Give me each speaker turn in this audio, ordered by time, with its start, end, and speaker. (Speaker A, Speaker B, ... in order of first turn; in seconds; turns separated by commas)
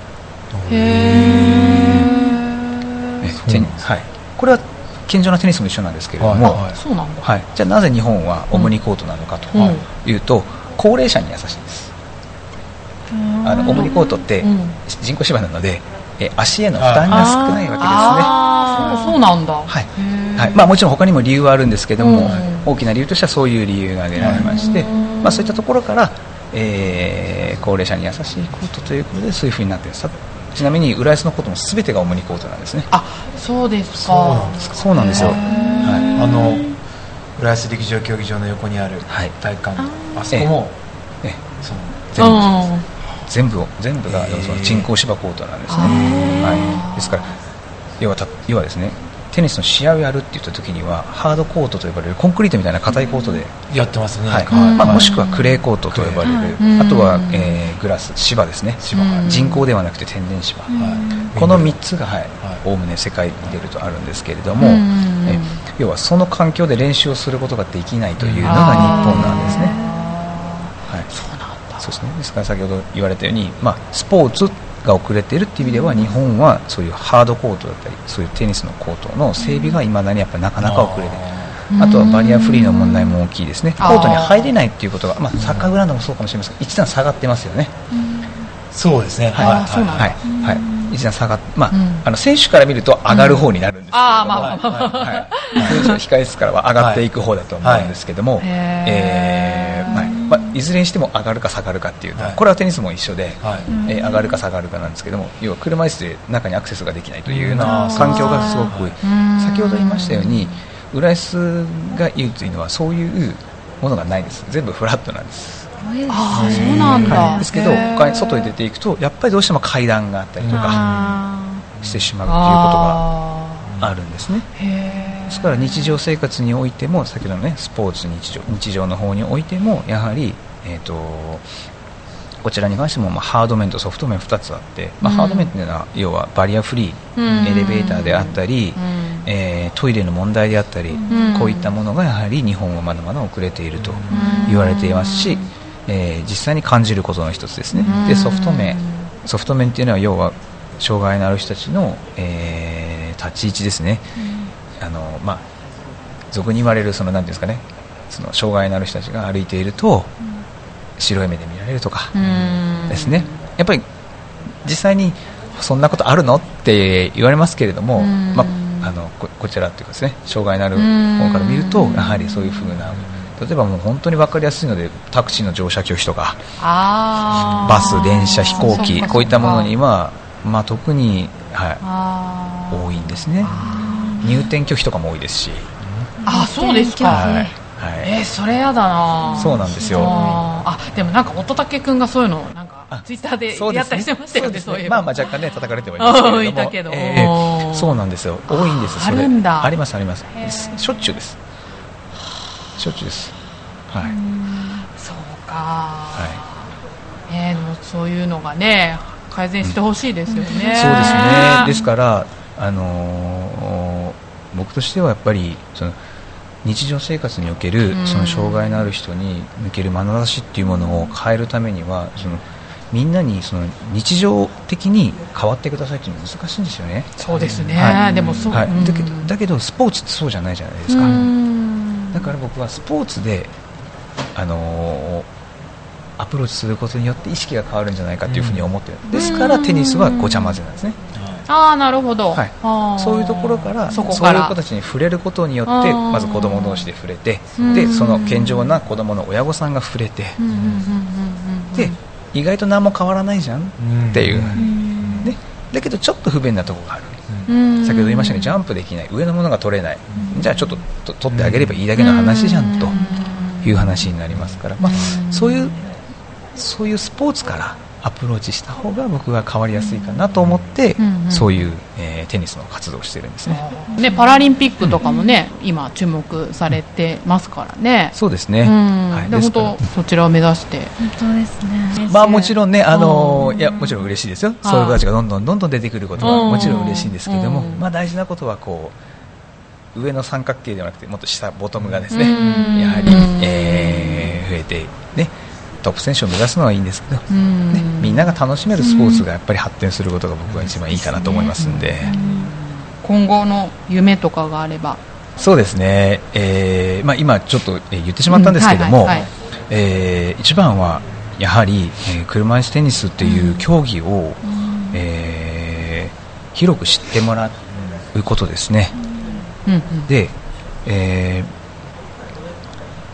Speaker A: 0.5-2.0, Speaker B: 0.7-3.3, Speaker C: 1.0-2.1, Speaker D: 1.2-2.3, Speaker C: 3.2-6.6, Speaker A: 3.4-3.9, Speaker A: 6.2-6.8, Speaker B: 6.4-7.3, Speaker C: 7.2-11.9, Speaker B: 9.6-9.8, Speaker D: 13.1-14.2, Speaker C: 13.4-19.1, Speaker B: 13.6-14.8, Speaker A: 16.8-17.5, Speaker D: 17.1-19.2, Speaker B: 17.8-20.7, Speaker C: 19.7-32.9, Speaker B: 22.0-22.7, Speaker A: 22.2-22.5, Speaker A: 24.2-24.5, Speaker B: 24.2-25.6, Speaker B: 32.9-36.7, Speaker A: 33.9-35.5, Speaker C: 34.6-36.1, Speaker D: 35.2-36.5, Speaker A: 36.1-36.8, Speaker A: 37.4-40.8, Speaker C: 39.1-39.4, Speaker D: 39.8-40.2, Speaker A: 41.6-42.1, Speaker C: 42.1-42.5, Speaker B: 42.2-42.9, Speaker C: 43.3-47.4, Speaker A: 44.1-44.9, Speaker B: 45.7-47.3, Speaker D: 45.8-46.8, Speaker A: 45.8-46.8, Speaker C: 48.0-53.7, Speaker A: 53.7-55.1, Speaker C: 54.3-60.7, Speaker B: 54.5-55.5, Speaker D: 54.5-55.1, Speaker A: 55.9-56.3, Speaker D: 56.2-56.6, Speaker B: 56.6-57.7, Speaker A: 58.8-59.3, Speaker B: 58.9-59.7, Speaker D: 60.7-61.3, Speaker A: 60.7-61.8, Speaker C: 61.3-69.7, Speaker B: 64.6-65.6, Speaker A: 68.2-69.6, Speaker B: 68.4-71.9, Speaker D: 68.8-69.7, Speaker C: 71.8-87.7, Speaker D: 79.4-79.8, Speaker A: 80.6-81.6, Speaker B: 81.7-82.4, Speaker D: 81.9-83.2, Speaker B: 83.8-84.5, Speaker A: 85.4-85.7, Speaker D: 87.9-88.4, Speaker A: 88.7-90.2, Speaker C: 89.3-115.7, Speaker B: 89.4-90.3, Speaker D: 90.2-91.0, Speaker B: 91.7-92.1, Speaker B: 93.1-96.0, Speaker A: 94.3-95.9, Speaker A: 96.8-97.1, Speaker A: 97.6-97.9, Speaker B: 98.4-100.1, Speaker D: 99.9-100.6, Speaker A: 103.4-103.7, Speaker D: 103.7-104.4, Speaker A: 107.3-109.0, Speaker D: 107.6-108.7, Speaker B: 109.0-110.5, Speaker D: 115.8-117.9, Speaker B: 116.1-118.5, Speaker A: 116.3-117.3, Speaker C: 117.1-120.8, Speaker A: 120.4-121.2, Speaker D: 120.5-121.7, Speaker A: 121.8-122.1, Speaker C: 121.8-123.0, Speaker B: 122.2-123.7, Speaker A: 123.6-123.9, Speaker C: 123.8-124.5, Speaker B: 124.6-125.9, Speaker C: 125.3-131.5, Speaker C: 132.4-154.1, Speaker B: 135.0-135.5, Speaker B: 137.2-139.3, Speaker D: 140.9-141.3, Speaker B: 141.1-141.7, Speaker A: 143.8-144.2, Speaker D: 144.1-144.8, Speaker B: 144.1-145.5, Speaker B: 147.8-149.1, Speaker D: 154.2-154.5, Speaker C: 154.8-155.4, Speaker C: 156.3-160.1, Speaker C: 161.0-162.2, Speaker B: 162.1-163.4, Speaker C: 162.9-163.9, Speaker C: 164.6-176.4, Speaker B: 168.0-168.9, Speaker B: 170.8-172.6, Speaker A: 172.9-173.3, Speaker B: 176.6-179.7, Speaker A: 177.4-177.7, Speaker C: 177.6-181.8, Speaker D: 177.7-179.4, Speaker B: 181.8-184.4, Speaker C: 182.7-183.6, Speaker D: 183.6-184.4, Speaker C: 184.2-185.7, Speaker A: 185.8-186.1, Speaker D: 186.2-187.5, Speaker B: 186.2-187.4, Speaker C: 187.1-188.1, Speaker B: 188.0-195.3, Speaker D: 189.3-190.4, Speaker C: 189.4-190.2, Speaker C: 192.9-201.4, Speaker B: 196.0-199.8, Speaker B: 200.4-200.8, Speaker C: 202.8-203.3, Speaker C: 203.9-204.2, Speaker D: 204.1-204.8, Speaker B: 204.7-206.5, Speaker C: 206.1-206.4, Speaker B: 207.3-211.7, Speaker D: 210.3-211.9, Speaker C: 210.7-216.0, Speaker C: 216.6-227.2, Speaker B: 217.9-218.9, Speaker B: 227.2-229.3, Speaker A: 227.4-228.6, Speaker C: 227.8-231.3, Speaker B: 230.9-232.3, Speaker C: 232.1-233.5, Speaker C: 234.3-235.3, Speaker C: 236.2-241.0, Speaker A: 238.3-238.7, Speaker B: 239.1-240.6, Speaker A: 241.1-241.5, Speaker B: 241.5-244.6, Speaker C: 242.3-250.4, Speaker B: 245.7-246.9, Speaker B: 247.6-248.8, Speaker B: 250.4-252.0, Speaker A: 250.5-250.9, Speaker C: 251.8-257.2, Speaker A: 253.8-255.3, Speaker D: 254.6-255.3, Speaker B: 257.5-258.6, Speaker C: 257.8-265.9, Speaker A: 261.3-261.8, Speaker B: 262.0-264.0, Speaker A: 264.3-265.0, Speaker B: 264.8-265.7, Speaker C: 266.6-273.6, Speaker B: 271.0-271.5, Speaker B: 273.5-280.9, Speaker C: 278.1-279.8, Speaker D: 281.0-282.0, Speaker B: 281.9-284.0, Speaker C: 282.0-289.0, Speaker B: 284.6-285.0, Speaker B: 286.2-287.8, Speaker A: 286.3-286.6, Speaker C: 289.9-302.1, Speaker A: 291.8-292.8, Speaker B: 292.1-294.4, Speaker B: 297.3-298.3, Speaker D: 298.8-299.2, Speaker A: 300.5-300.8, Speaker B: 301.0-305.0, Speaker D: 302.0-302.5, Speaker C: 305.4-317.6, Speaker B: 308.3-309.3, Speaker B: 313.2-313.6, Speaker D: 314.4-315.0, Speaker C: 318.1-319.0, Speaker D: 319.0-319.4, Speaker B: 319.7-320.1, Speaker C: 320.1-321.5